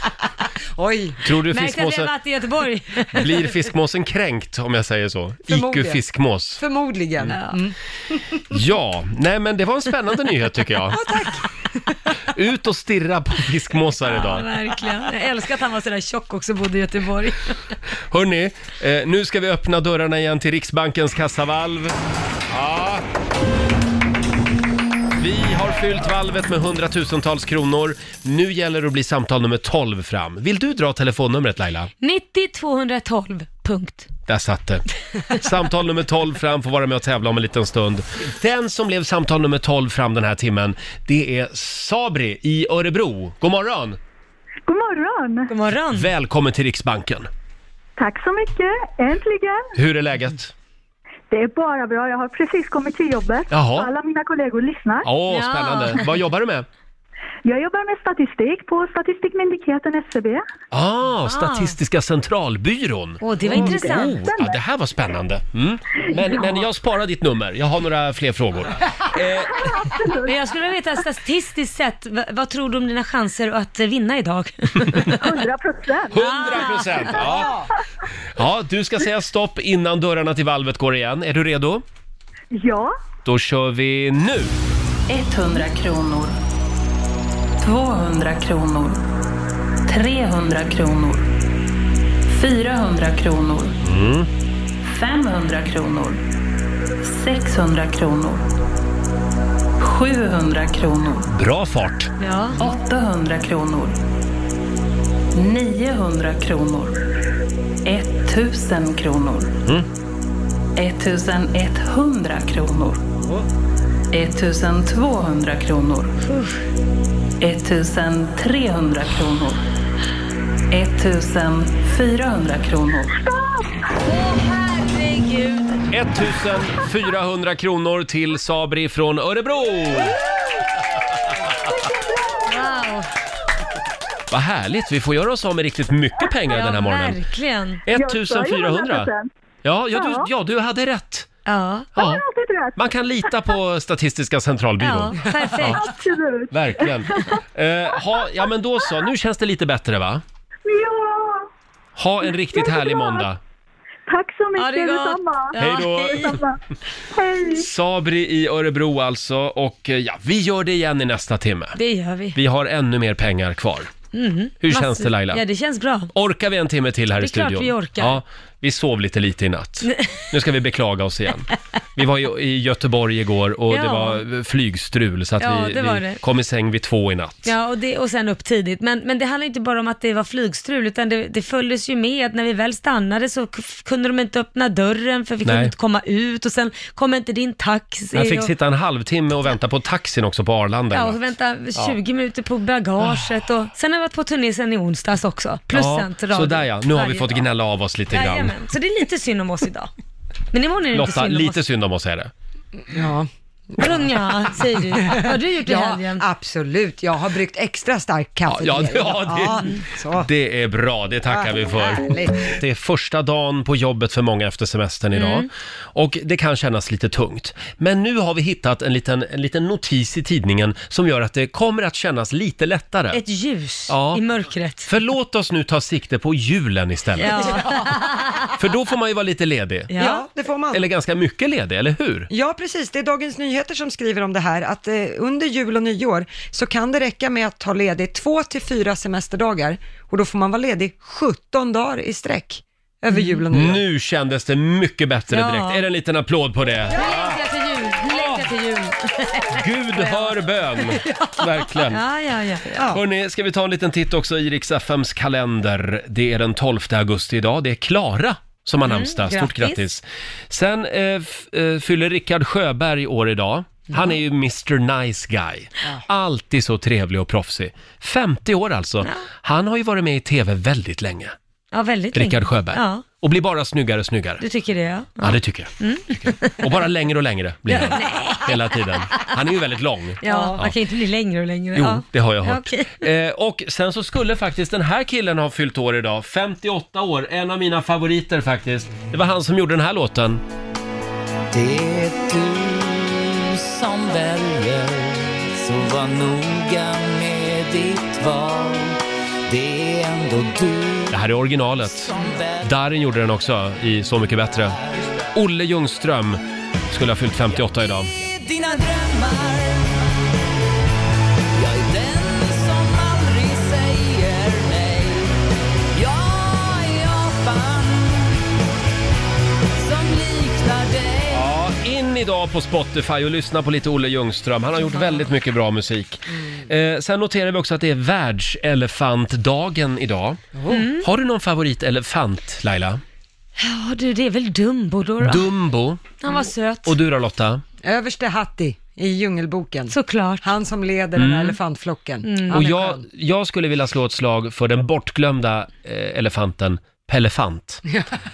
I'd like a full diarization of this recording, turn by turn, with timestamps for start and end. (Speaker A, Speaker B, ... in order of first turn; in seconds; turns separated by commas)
Speaker A: 0.8-1.2, Speaker B: 1.2-2.1, Speaker C: 1.5-3.5, Speaker B: 3.1-6.6, Speaker A: 5.5-6.0, Speaker A: 6.6-7.7, Speaker C: 7.3-7.6, Speaker B: 8.5-11.0, Speaker A: 10.9-11.4, Speaker B: 12.3-14.5, Speaker C: 14.0-17.6, Speaker B: 18.1-21.9, Speaker B: 22.5-23.0, Speaker B: 25.2-31.9, Speaker C: 32.0-34.1, Speaker B: 34.3-44.0, Speaker D: 44.7-45.5, Speaker C: 45.5-46.1, Speaker B: 45.9-47.3, Speaker D: 48.0-49.7, Speaker B: 49.8-50.5, Speaker D: 51.3-55.1, Speaker B: 53.5-53.9, Speaker B: 55.0-56.6, Speaker C: 55.2-56.1, Speaker D: 57.4-60.4, Speaker B: 60.7-69.7, Speaker C: 61.2-61.8, Speaker C: 63.2-64.3, Speaker D: 63.5-64.6, Speaker D: 69.5-70.3, Speaker C: 70.2-75.0, Speaker D: 75.2-76.1, Speaker C: 76.1-77.4, Speaker B: 76.1-77.6, Speaker B: 78.3-81.8, Speaker D: 82.5-82.9, Speaker B: 83.2-84.5, Speaker E: 85.1-86.4, Speaker E: 87.6-89.0, Speaker E: 89.8-91.3, Speaker E: 92.3-93.8, Speaker B: 93.8-94.3, Speaker E: 94.8-96.2, Speaker E: 97.0-98.5, Speaker E: 99.8-101.3, Speaker B: 101.3-102.1, Speaker C: 102.2-102.6, Speaker E: 102.6-104.0, Speaker E: 105.3-107.0, Speaker E: 107.8-109.6, Speaker E: 110.8-113.0, Speaker E: 114.1-116.2, Speaker C: 116.2-116.6, Speaker E: 117.4-119.6, Speaker E: 120.7-123.2, Speaker D: 123.1-123.6, Speaker C: 124.0-125.8, Speaker B: 125.9-130.2, Speaker D: 130.0-130.4, Speaker D: 131.8-132.7, Speaker C: 132.4-133.1, Speaker B: 134.3-137.2, Speaker C: 136.5-137.8, Speaker B: 137.9-139.1, Speaker D: 137.9-139.3, Speaker B: 139.6-141.3, Speaker D: 139.9-140.3, Speaker C: 141.4-141.9, Speaker B: 141.9-142.2, Speaker D: 142.0-143.5, Speaker B: 142.8-145.8, Speaker C: 144.8-145.9, Speaker D: 145.7-147.4, Speaker B: 146.5-150.2, Speaker D: 147.9-148.5, Speaker D: 150.6-151.5, Speaker B: 151.9-153.4, Speaker D: 152.2-153.3, Speaker D: 154.1-156.6, Speaker C: 154.6-156.3, Speaker B: 155.6-156.4, Speaker D: 157.1-157.7, Speaker B: 157.5-161.8, Speaker C: 161.7-162.4, Speaker B: 162.3-163.9, Speaker C: 164.1-166.1, Speaker B: 164.6-165.4, Speaker B: 166.1-177.5, Speaker C: 167.1-168.2, Speaker C: 169.8-170.2, Speaker C: 173.7-174.2, Speaker C: 175.4-176.2, Speaker C: 177.4-188.5, Speaker B: 185.4-185.7, Speaker B: 188.1-191.2, Speaker C: 190.9-197.5, Speaker B: 195.7-198.5, Speaker C: 198.1-199.9, Speaker C: 200.5-201.6, Speaker B: 200.9-202.3, Speaker A: 202.9-210.3, Speaker C: 203.8-206.2, Speaker B: 208.5-223.2, Speaker A: 211.3-212.5, Speaker C: 215.1-215.5, Speaker C: 223.1-224.9, Speaker B: 223.9-224.2, Speaker B: 224.8-227.7, Speaker C: 227.2-228.3, Speaker B: 228.6-229.9, Speaker C: 229.9-230.3, Speaker A: 229.9-230.9, Speaker B: 230.7-232.3, Speaker A: 232.3-243.8, Speaker C: 243.1-243.4, Speaker B: 243.5-247.4, Speaker C: 245.3-245.8, Speaker C: 246.9-250.3, Speaker B: 248.0-248.5, Speaker B: 249.5-252.0, Speaker C: 251.9-252.8, Speaker A: 252.7-253.0, Speaker B: 252.9-271.3, Speaker C: 258.8-259.8, Speaker C: 271.7-273.1, Speaker B: 272.1-274.4, Speaker C: 274.4-276.7, Speaker B: 275.2-280.8, Speaker C: 277.7-279.3, Speaker C: 280.2-283.1, Speaker A: 280.3-280.6, Speaker B: 281.7-290.4, Speaker F: 291.5-301.2, Speaker B: 301.1-304.8, Speaker F: 301.8-302.7, Speaker B: 305.3-308.1, Speaker F: 308.1-310.3, Speaker F: 311.5-315.4, Speaker F: 315.9-318.4, Speaker F: 319.8-321.5, Speaker B: 321.3-330.4, Speaker C: 324.9-325.2, Speaker A: 330.6-330.9, Speaker C: 330.7-331.1, Speaker B: 331.0-333.0, Speaker C: 333.6-335.5, Speaker B: 335.2-336.2, Speaker C: 336.2-337.0, Speaker B: 336.8-337.6, Speaker A: 337.8-343.0, Speaker C: 339.9-340.4, Speaker B: 341.1-341.6, Speaker C: 342.2-342.7, Speaker B: 342.5-347.8